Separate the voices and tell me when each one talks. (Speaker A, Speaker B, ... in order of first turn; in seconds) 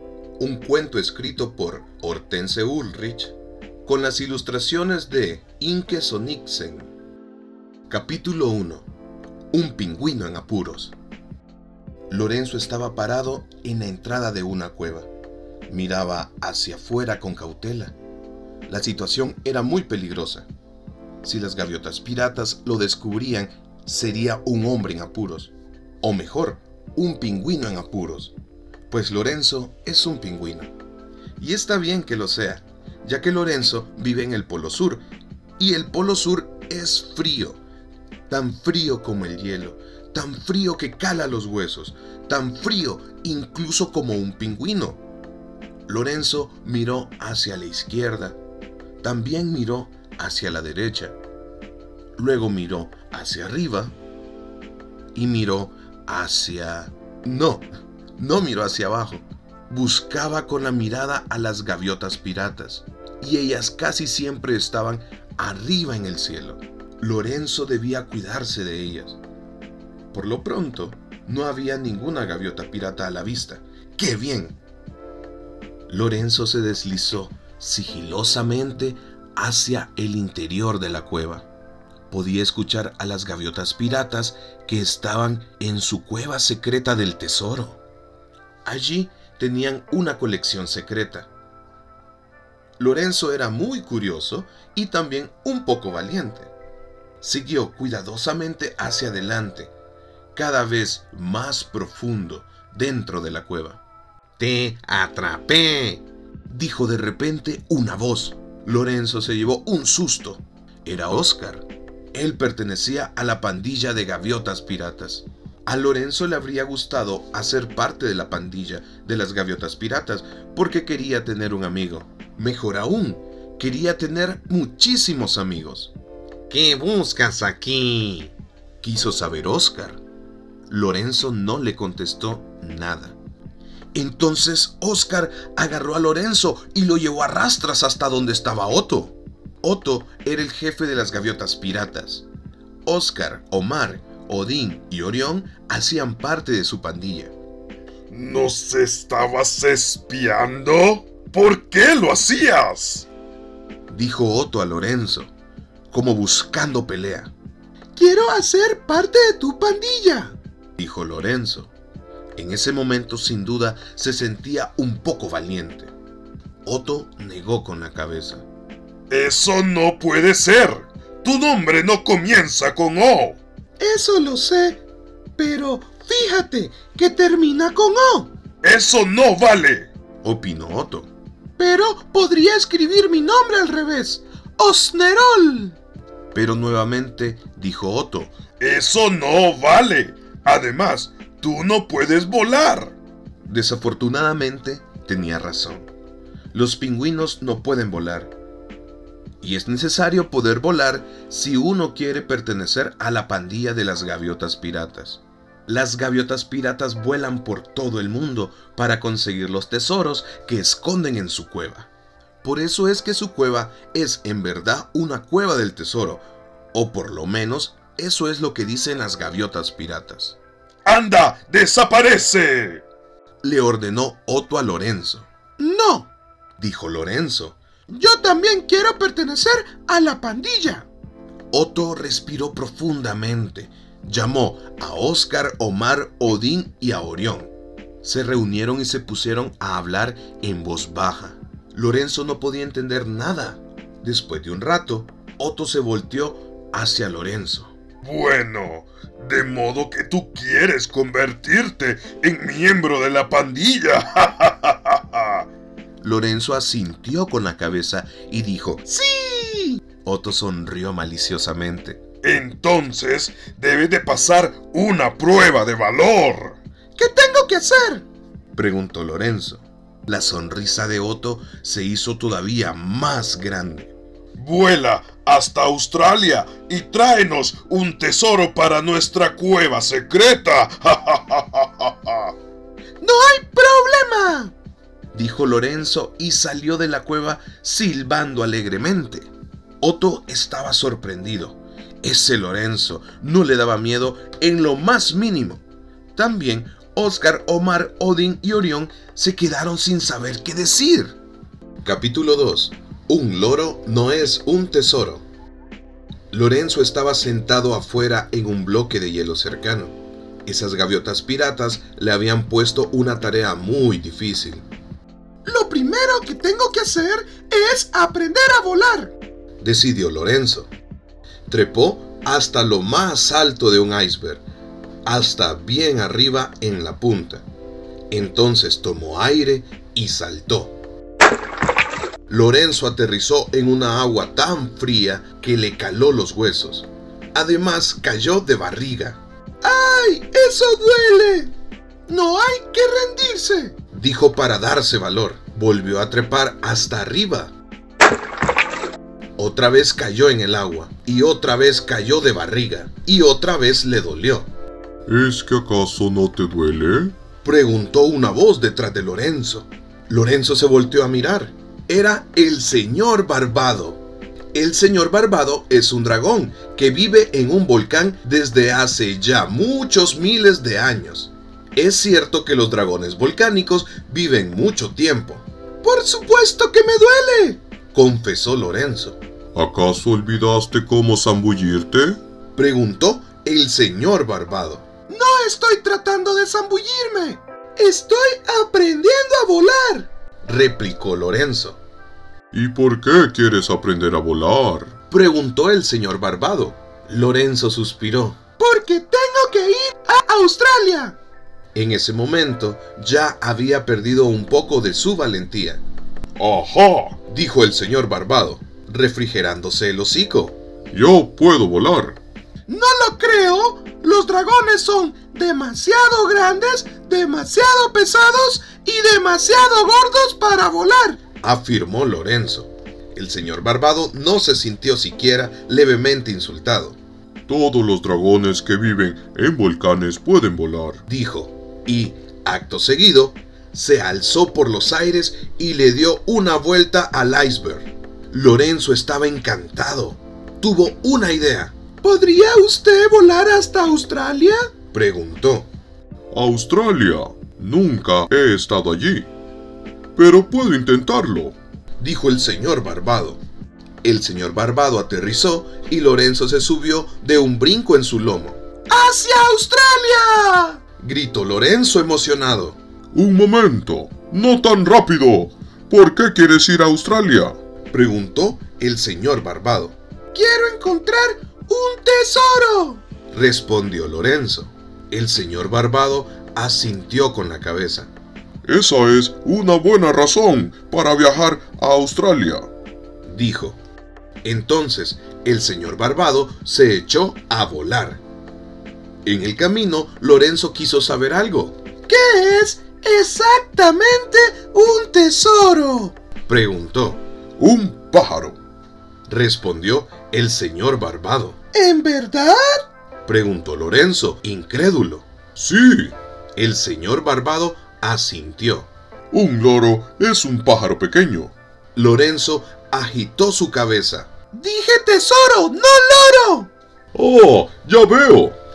Speaker A: 0.4-6.9, 7.9-8.9, 9.5-10.9, 12.1-15.1, 15.7-17.9, 18.7-20.5, 21.2-28.4, 28.9-30.7, 31.4-35.0, 35.6-37.6, 38.3-45.0, 45.9-48.4, 49.0-51.2, 52.2-54.0, 55.1-57.6, 58.2-69.2, 70.1-74.6, 75.9-81.5, 82.1-87.8, 88.6-91.3, 92.8-96.5, 97.2-99.7, 100.3-103.8, 104.4-125.9, 126.5-130.0, 130.7-133.2, 133.9-142.3, 142.8-147.3, 153.9-155.3, 155.9-157.3, 160.8-161.7, 162.3-165.9, 166.6-168.4, 173.8-174.8, 175.4-178.3, 180.2-185.7, 186.3-188.3, 193.4-195.9, 196.5-198.3, 199.4-211.9, 212.4-220.4, 223.4-226.0, 226.6-230.8, 231.5-237.5, 238.0-247.7, 256.0-259.2, 259.8-262.0, 267.0-268.0, 268.5-273.9, 285.1-289.3, 289.8-295.6, 296.1-301.2, 301.8-305.2, 306.3-314.6, 316.0-316.6, 319.6-320.7, 321.5-324.4, 325.1-327.4, 328.1-330.8, 332.3-339.2, 343.0-347.5, 349.4-354.5, 357.4-364.0, 364.5-379.2, 382.6-387.4, 388.2-391.8, 395.1-400.7, 401.7-405.8, 407.3-410.6, 412.7-427.0, 431.1-442.7, 444.7-445.7, 452.0-453.4, 454.0-458.6, 461.0-462.8, 467.9-470.0, 473.3-478.1, 483.2-483.8, 484.4-488.2, 489.2-491.8, 496.5-497.2, 499.3-501.7, 503.2-505.3, 506.6-508.9, 511.9-514.4, 515.2-516.6
Speaker B: 148.1-153.1, 169.1-173.4, 178.6-179.9, 188.6-192.9, 220.8-222.8, 248.0-255.4, 262.2-266.6, 274.4-282.3, 355.1-357.1, 379.5-382.2, 392.5-394.9, 406.4-407.2, 410.9-412.2, 427.5-431.0, 446.3-449.3, 450.1-451.6, 463.1-467.6, 478.6-482.7, 497.6-498.6, 505.6-506.1, 509.3-511.5, 517.1-518.6
Speaker C: 157.9-160.3, 176.5-178.1, 184.8-185.2, 225.6-226.0, 228.0-228.3, 229.0-229.7, 259.2-259.7, 267.0-268.0, 283.0-284.5, 315.4-319.1, 339.6-341.5, 342.1-343.6, 375.8-377.5, 385.1-385.6, 387.8-390.0, 398.6-401.1, 412.7-413.2, 414.1-416.5, 417.1-421.1, 442.1-444.6, 458.9-460.7, 470.3-473.0, 492.1-496.1, 501.7-502.8, 514.5-516.5